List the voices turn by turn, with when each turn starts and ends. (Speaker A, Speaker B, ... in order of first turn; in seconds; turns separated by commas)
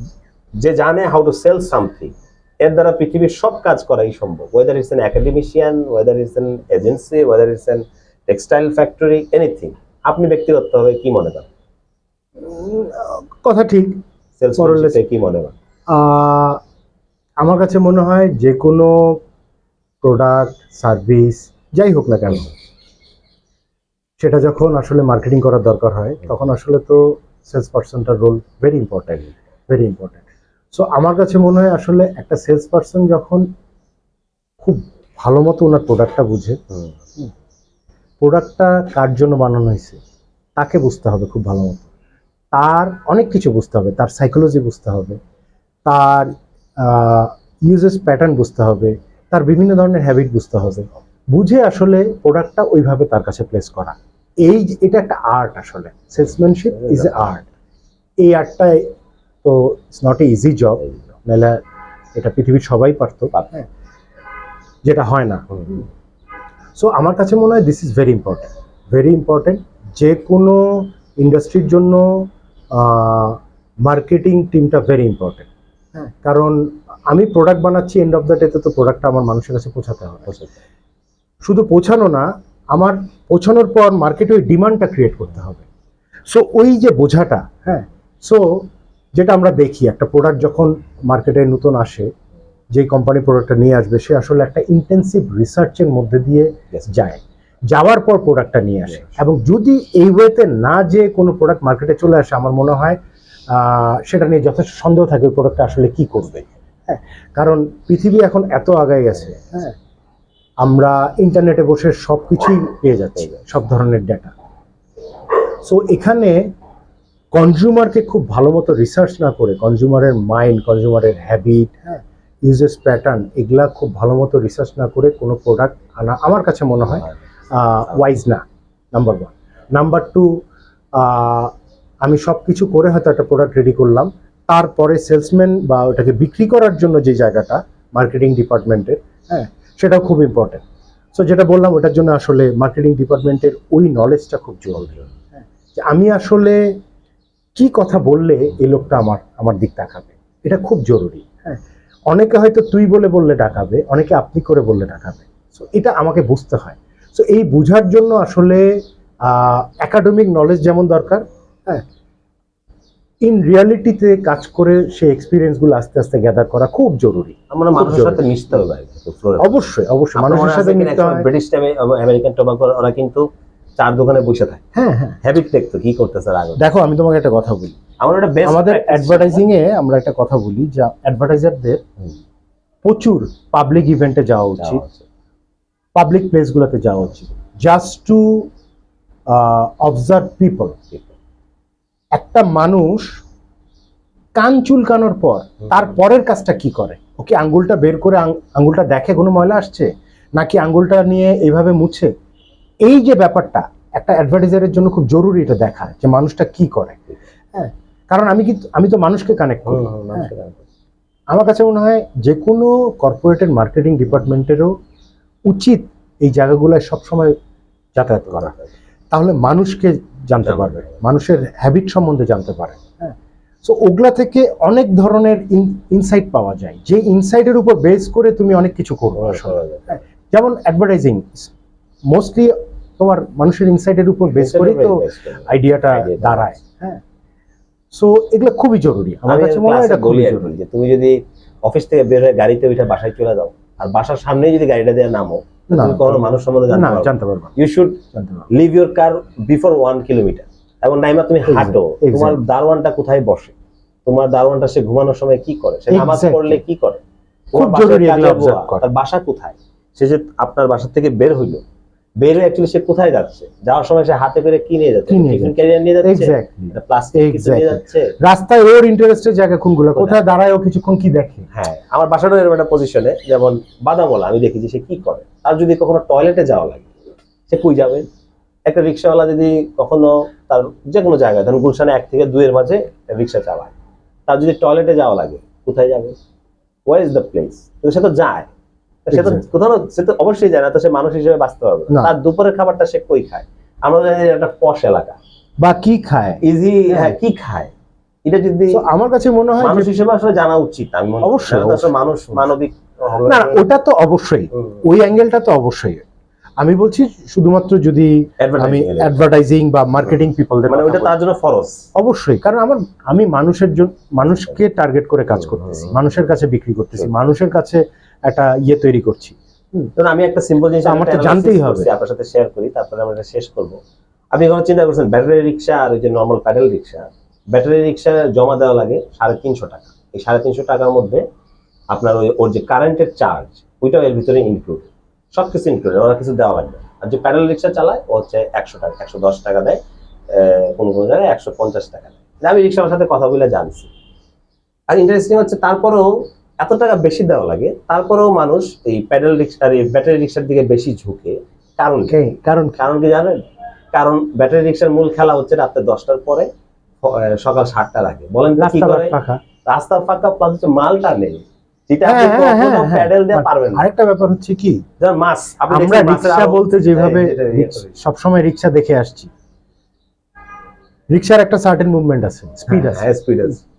Speaker A: 0.6-11.5, Speaker B: 12.4-14.0, Speaker A: 14.4-15.5, Speaker B: 14.6-15.0, Speaker B: 15.9-16.6, Speaker B: 17.4-19.1, Speaker B: 20.0-22.5, Speaker B: 24.2-33.4, Speaker B: 34.6-36.6, Speaker B: 38.2-40.0, Speaker B: 40.5-41.9, Speaker B: 42.5-45.2, Speaker B: 45.8-57.5, Speaker B: 58.2-58.9, Speaker B: 59.4-61.6, Speaker B: 62.1-63.6, Speaker B: 64.8-65.9, Speaker B: 66.8-80.3, Speaker B: 81.4-85.7, Speaker B: 86.3-92.1, Speaker B: 92.7-103.0, Speaker B: 103.5-109.8, Speaker B: 110.6-114.3, Speaker B: 115.6-116.4, Speaker B: 117.3-130.4, Speaker B: 130.9-140.6, Speaker B: 141.1-146.6, Speaker B: 147.6-158.7, Speaker B: 159.2-161.8, Speaker B: 163.2-168.2, Speaker A: 167.5-169.6, Speaker B: 169.4-171.3, Speaker A: 170.1-173.3, Speaker A: 173.8-174.6, Speaker B: 174.7-175.2, Speaker A: 175.2-176.6, Speaker B: 176.6-177.8, Speaker A: 178.0-179.4, Speaker B: 178.4-181.8, Speaker B: 182.8-184.8, Speaker A: 184.6-185.0, Speaker B: 185.9-188.5, Speaker B: 189.3-190.8, Speaker B: 192.1-193.2, Speaker B: 194.3-202.1, Speaker B: 202.8-210.3, Speaker A: 209.7-210.6, Speaker B: 211.3-214.7, Speaker B: 215.5-217.3, Speaker B: 217.9-218.5, Speaker B: 219.1-231.5, Speaker A: 229.2-229.9, Speaker B: 232.1-237.0, Speaker A: 234.3-236.5, Speaker B: 237.9-240.5, Speaker A: 239.2-248.0, Speaker B: 245.7-247.5, Speaker B: 248.1-248.5, Speaker A: 248.5-257.0, Speaker B: 251.4-252.4, Speaker B: 255.9-256.6, Speaker A: 257.5-261.6, Speaker B: 257.5-258.8, Speaker A: 262.2-268.1, Speaker B: 265.1-271.5, Speaker A: 269.9-270.2, Speaker A: 271.5-276.9, Speaker A: 277.5-278.1, Speaker A: 278.7-283.7, Speaker A: 284.3-286.1, Speaker A: 286.9-288.5, Speaker A: 289.1-295.2, Speaker B: 289.1-289.4, Speaker B: 295.6-297.1, Speaker A: 296.4-297.7, Speaker A: 298.2-298.9, Speaker B: 298.7-299.9, Speaker A: 299.6-303.6, Speaker B: 301.2-302.5, Speaker B: 303.2-306.0, Speaker B: 306.6-311.1, Speaker A: 308.4-309.2, Speaker A: 310.7-311.9, Speaker B: 311.9-319.9, Speaker A: 315.4-316.0, Speaker A: 320.0-323.8, Speaker B: 320.8-321.9, Speaker A: 324.3-331.2, Speaker A: 331.9-343.9, Speaker A: 344.9-352.2, Speaker B: 352.1-352.9, Speaker A: 352.8-356.5, Speaker A: 357.0-359.1, Speaker B: 358.6-359.4, Speaker A: 359.6-363.8, Speaker B: 362.0-364.8, Speaker A: 365.0-367.9, Speaker B: 365.7-369.3, Speaker B: 371.1-373.1, Speaker A: 372.7-373.6